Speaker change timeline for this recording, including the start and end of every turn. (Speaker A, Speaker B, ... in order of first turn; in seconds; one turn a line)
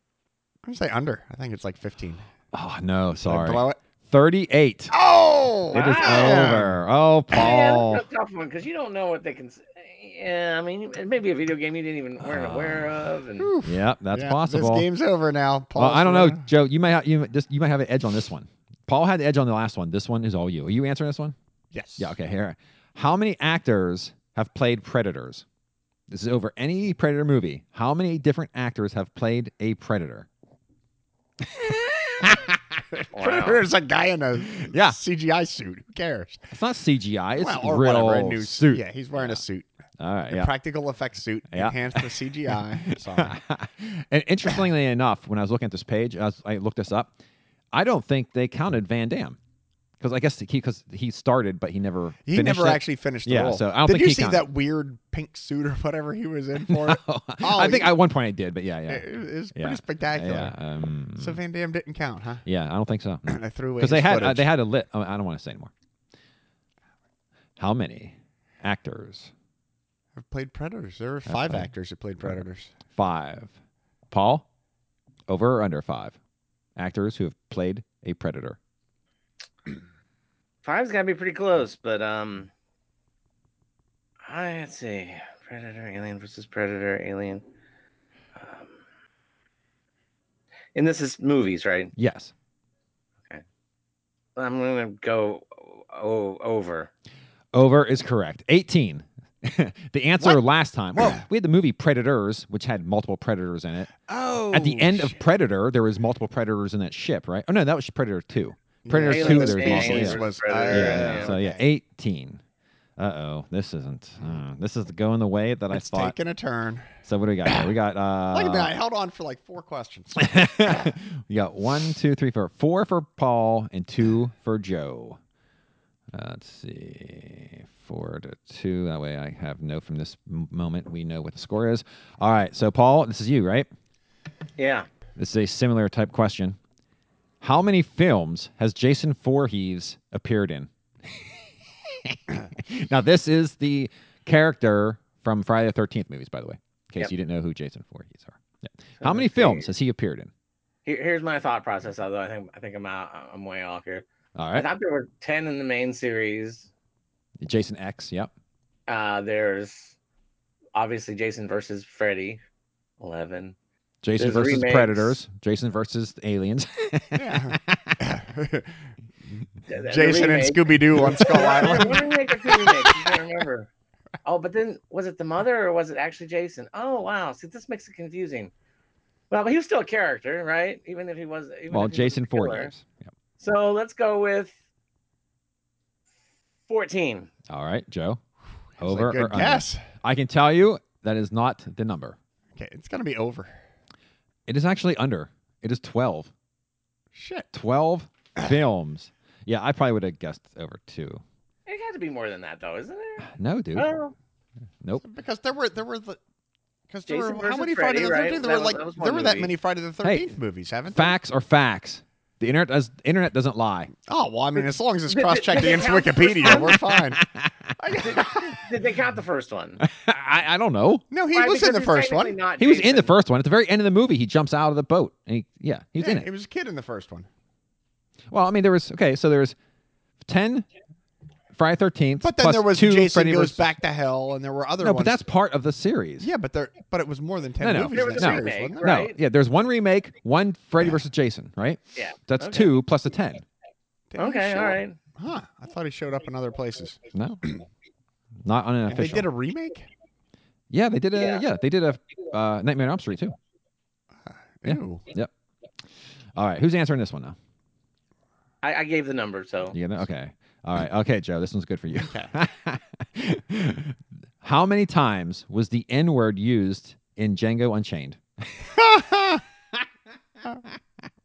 Speaker A: 0.6-2.3
Speaker B: 2.5-4.9
Speaker A: 3.3-3.8
Speaker A: 4.9-6.8
Speaker B: 5.7-8.0
Speaker C: 5.7-6.5
Speaker C: 7.3-13.5
Speaker B: 12.2-13.0
Speaker A: 13.4-16.4
Speaker B: 13.6-14.9
Speaker B: 15.8-21.4
Speaker A: 21.7-22.1
Speaker B: 22.0-25.4
Speaker B: 26.1-30.3
Speaker B: 31.4-32.6
Speaker C: 33.1-33.6
Speaker A: 33.2-36.5
Speaker B: 34.6-35.0
Speaker B: 36.5-39.4
Speaker A: 37.4-39.7
Speaker B: 40.0-40.5
Speaker A: 40.3-43.4
Speaker B: 41.5-47.1
Speaker B: 47.7-49.4
Speaker B: 50.0-54.5
Speaker A: 52.3-57.9
Speaker B: 56.7-61.4
Speaker A: 58.9-60.6
Speaker A: 61.2-62.5
Speaker B: 62.5-65.7
Speaker A: 63.3-64.5
Speaker B: 67.6-69.3
Speaker A: 70.2-72.7
Speaker B: 71.3-71.7
Speaker B: 73.0-73.5
Speaker B: 74.1-74.5
Speaker B: 75.3-76.2
Speaker B: 76.8-78.6
Speaker C: 80.6-82.5
Speaker C: 84.3-87.4
Speaker C: 88.4-88.8
Speaker C: 90.8-91.9
Speaker B: 92.0-92.3
Speaker C: 94.4-96.9
Speaker B: 97.5-103.9
Speaker A: 104.1-105.2
Speaker B: 104.5-112.4
Speaker A: 108.8-111.6
Speaker C: 109.1-111.3
Speaker B: 113.0-116.2
Speaker A: 115.7-116.9
Speaker B: 117.0-118.7
Speaker A: 118.3-120.5
Speaker B: 120.2-125.2
Speaker B: 126.1-133.7
Speaker C: 134.6-134.9
Speaker B: 135.2-136.6
Speaker B: 137.4-150.3
Speaker C: 149.0-149.7
Speaker C: 150.8-156.7
Speaker B: 154.3-154.7
Speaker B: 157.4-158.3
Speaker C: 158.9-159.9
Speaker C: 160.8-162.4
Speaker C: 163.0-163.6
Speaker B: 164.0-168.0
Speaker C: 164.2-165.2
Speaker A: 167.1-168.7
Speaker A: 169.3-173.1
Speaker C: 169.7-173.7
Speaker B: 171.3-171.9
Speaker C: 174.2-178.5
Speaker C: 179.3-182.7
Speaker B: 181.7-183.1
Speaker C: 183.4-184.6
Speaker C: 186.7-187.3
Speaker B: 187.5-188.2
Speaker A: 188.8-189.8
Speaker B: 188.8-192.2
Speaker A: 192.6-193.5
Speaker B: 194.5-196.3
Speaker A: 197.1-197.5
Speaker B: 197.5-201.2
Speaker C: 201.7-204.1
Speaker B: 203.3-203.9
Speaker A: 205.0-206.2
Speaker A: 206.9-211.2
Speaker C: 207.1-209.5
Speaker B: 210.0-210.3
Speaker B: 210.9-213.9
Speaker A: 214.1-217.2
Speaker C: 215.1-216.8
Speaker B: 217.1-217.5
Speaker A: 217.8-218.6
Speaker C: 217.9-219.8
Speaker B: 219.8-221.1
Speaker A: 221.1-222.4
Speaker C: 221.3-223.1
Speaker B: 222.6-226.3
Speaker A: 226.0-227.3
Speaker B: 228.3-229.6
Speaker B: 230.2-230.7
Speaker B: 231.5-233.6
Speaker A: 232.2-235.2
Speaker B: 234.8-236.3
Speaker A: 236.2-239.0
Speaker B: 237.6-243.4
Speaker C: 237.9-239.2
Speaker C: 242.0-242.7
Speaker A: 244.1-247.6
Speaker C: 244.2-245.0
Speaker B: 247.1-247.4
Speaker B: 248.4-249.3
Speaker A: 248.9-249.9
Speaker B: 250.7-253.4
Speaker C: 251.2-251.4
Speaker A: 254.3-255.1
Speaker B: 254.7-255.3
Speaker B: 256.4-257.4
Speaker C: 258.6-259.8
Speaker B: 259.7-268.7
Speaker A: 262.0-262.3
Speaker A: 268.8-269.4